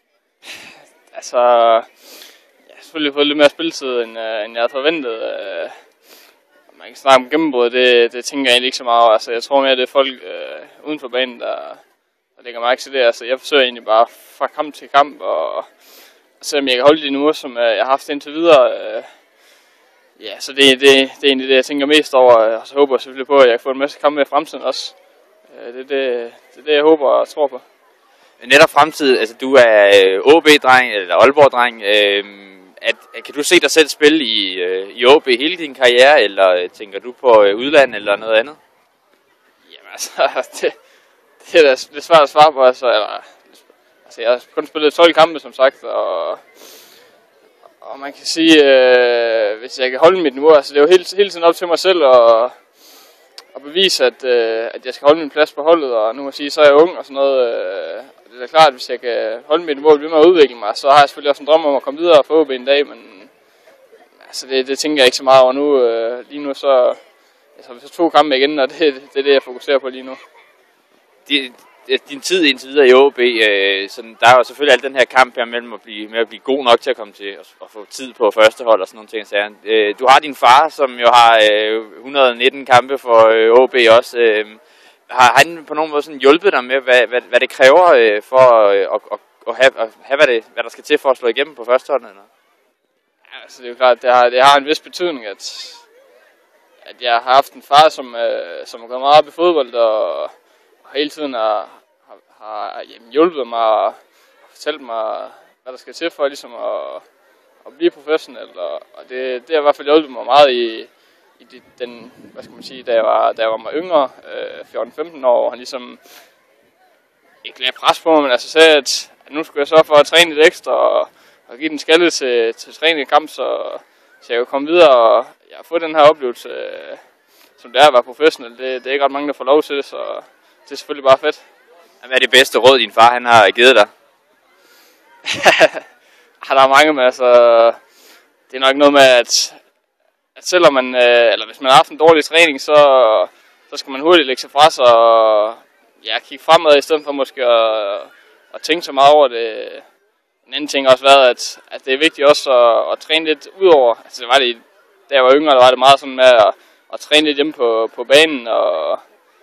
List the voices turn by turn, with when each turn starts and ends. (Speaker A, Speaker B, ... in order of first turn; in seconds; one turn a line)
Speaker A: 0.5-1.9
Speaker A: 2.7-5.7
Speaker A: 6.7-11.8
Speaker A: 12.4-15.7
Speaker A: 16.4-19.1
Speaker A: 20.2-24.9
Speaker A: 25.5-27.6
Speaker B: 28.4-38.6
Speaker A: 39.7-40.7
Speaker A: 41.4-46.4
Speaker A: 47.8-52.5
Speaker A: 53.5-63.3
Speaker A: 64.2-67.0
Speaker A: 67.5-70.2
Speaker B: 71.3-92.3
Speaker A: 93.3-95.8
Speaker A: 96.8-100.3
Speaker A: 100.8-104.0
Speaker A: 104.5-107.0
Speaker A: 107.6-116.0
Speaker A: 117.4-127.0
Speaker A: 127.6-131.4
Speaker B: 132.0-133.9
Speaker A: 135.2-135.8
Speaker A: 136.4-137.8
Speaker A: 138.5-139.6
Speaker A: 140.3-149.8
Speaker A: 150.5-159.0